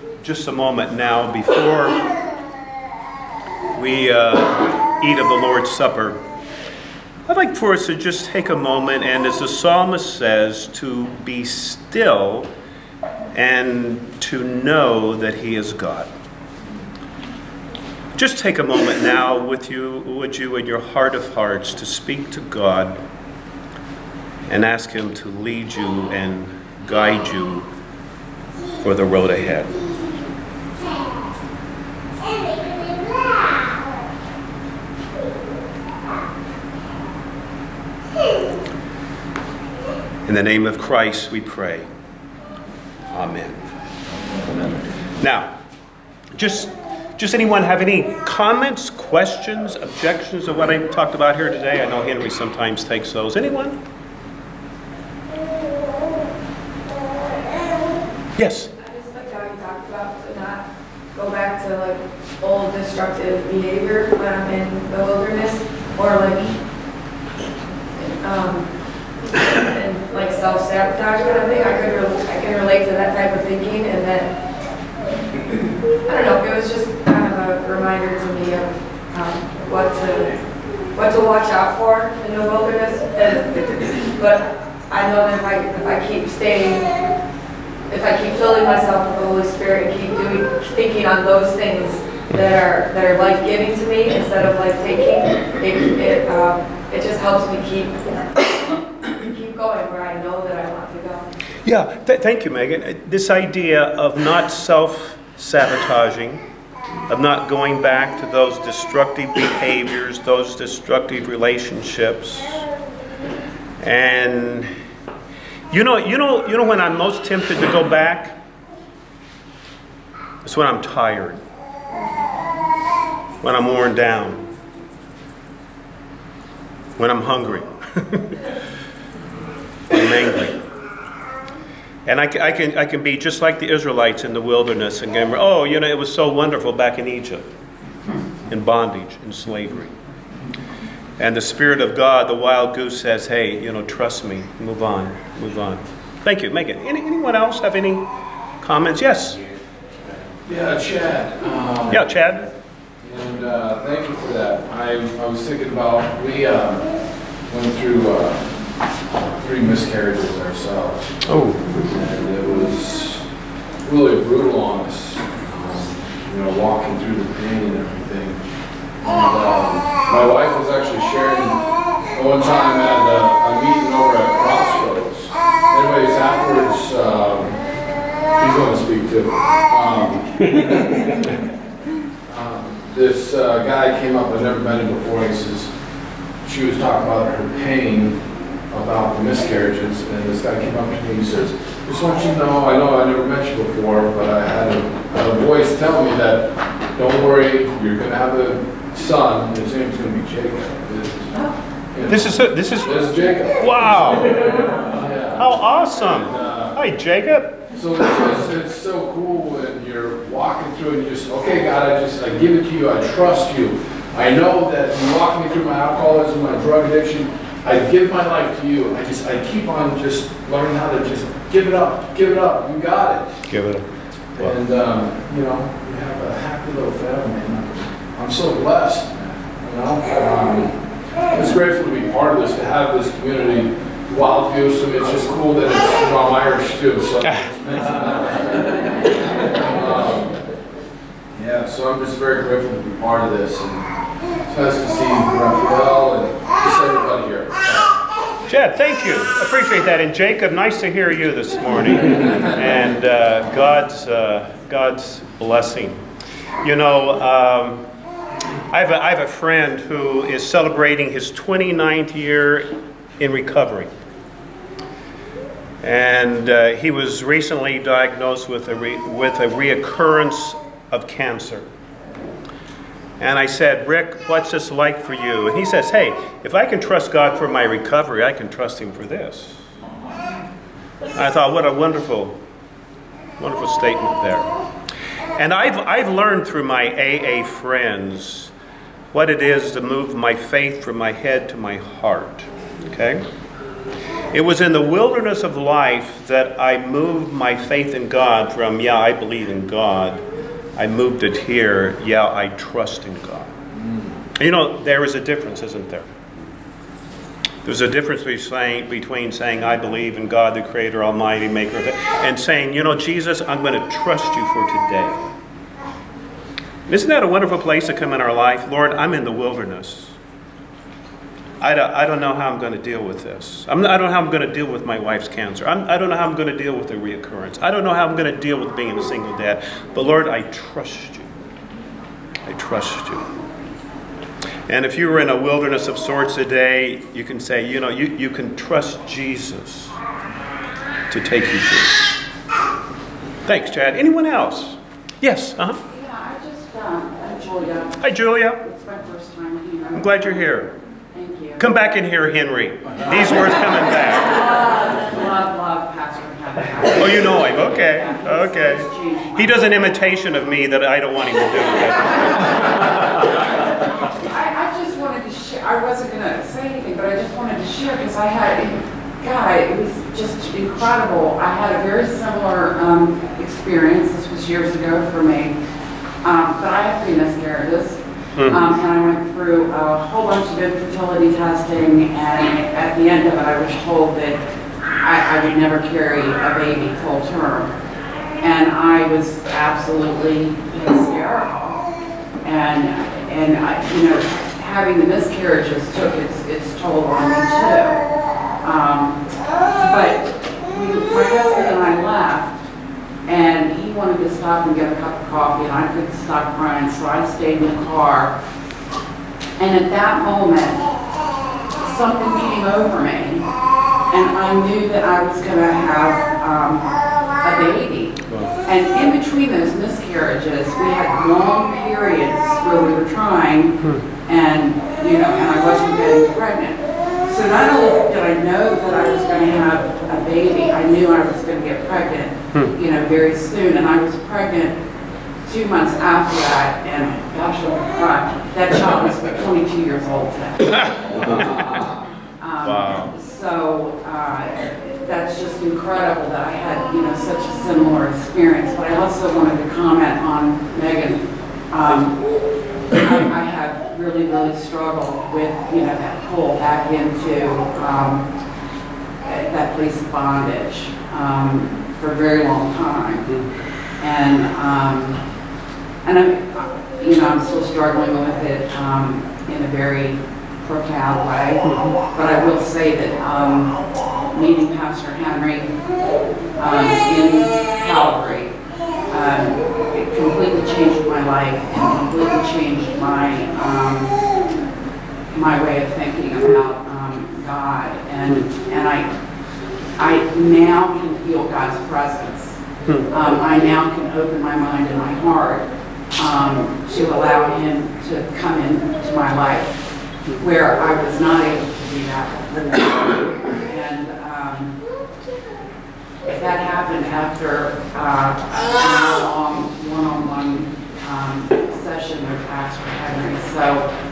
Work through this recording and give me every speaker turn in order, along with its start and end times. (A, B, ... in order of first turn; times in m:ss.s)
0:00.2-0:02.1 A
0:03.7-0:06.2 A
0:07.3-0:12.5 A
0:13.3-0:16.1 A
0:18.2-0:23.0 A
0:24.5-0:27.7 A
0:28.8-0:29.7 A
0:40.2-0:41.9 A
0:43.1-0:43.6 A
0:45.2-0:45.5 A
0:46.3-0:53.8 A
0:58.4-0:58.7 A
0:58.8-1:06.5 B
1:08.0-1:08.7 B
1:09.6-1:14.3 B
1:16.0-1:20.4 B
1:20.9-1:26.9 B
1:27.9-1:41.2 B
1:41.6-1:46.4 A
1:47.1-1:52.6 A
1:53.8-1:54.7 A
1:55.7-1:58.4 A
2:00.4-2:01.4 A
2:03.4-2:04.4 A
2:07.0-2:08.4 A
2:09.9-2:10.6 A
2:12.0-2:17.4 A
2:18.5-2:19.9 A
2:21.2-2:28.0 A
2:28.6-2:29.4 A
2:30.4-2:32.1 C
2:31.9-2:32.4 A
2:33.0-2:36.9 C
2:37.4-2:41.1 C
2:41.2-2:41.9 A
2:41.8-2:43.2 C
2:43.8-2:48.4 C
2:49.0-2:57.6 C
2:58.3-3:01.1 C
3:02.3-3:05.7 C
3:06.4-3:08.2 C
3:08.7-3:26.8 C
3:22.1-3:24.6 A
3:25.4-3:27.6 A
3:27.7-3:43.4 C
3:43.5-3:43.8 A
3:44.4-4:00.4 C
4:01.3-4:03.8 C
4:04.5-4:07.9 C
4:08.5-4:16.0 A
4:16.6-4:17.8 A
4:18.7-4:23.9 A
4:25.8-4:31.7 A
4:33.2-4:39.6 A
4:41.1-4:42.4 A
4:43.4-4:44.5 A
4:45.4-4:48.5 A
4:49.1-4:53.2 A
4:54.3-5:00.2 A
5:00.8-5:03.5 A
5:03.8-5:04.1 C
5:04.4-5:06.1 A
5:07.6-5:15.3 A
5:16.9-5:20.2 A
5:21.6-5:31.3 A
5:32.4-5:33.3 A
5:34.7-5:39.9 A
5:41.1-5:42.1 A
5:43.4-5:45.8 A
5:45.9-5:50.6 D
5:48.0-5:48.6 A
5:49.9-5:50.7 A
5:51.1-5:51.7 D
5:51.6-5:54.4 A
5:54.0-5:59.7 D
5:57.0-6:02.9 A
6:04.2-6:15.6 D
6:16.2-6:24.4 D
6:18.4-6:18.6 A
6:25.0-6:27.7 D
6:28.4-6:31.8 D
6:32.4-6:38.0 D
6:38.6-6:39.2 D
6:39.8-6:42.6 D
6:43.2-6:48.4 D
6:49.6-6:50.9 D
6:51.8-6:53.5 D
6:54.1-7:14.8 D
6:58.3-6:58.5 A
7:15.4-7:21.8 D
7:21.2-7:21.5 A
7:22.4-7:32.2 D
7:22.6-7:23.1 A
7:32.9-7:38.3 D
7:39.2-7:43.3 D
7:44.0-7:45.2 D
7:46.0-7:53.8 D
7:51.6-7:52.0 A
7:54.3-7:55.7 D
7:56.6-7:58.6 D
7:59.1-8:04.2 D
8:05.3-8:09.1 D
8:10.0-8:12.6 D
8:13.1-8:19.8 D
8:20.4-8:24.8 D
8:26.2-8:33.9 D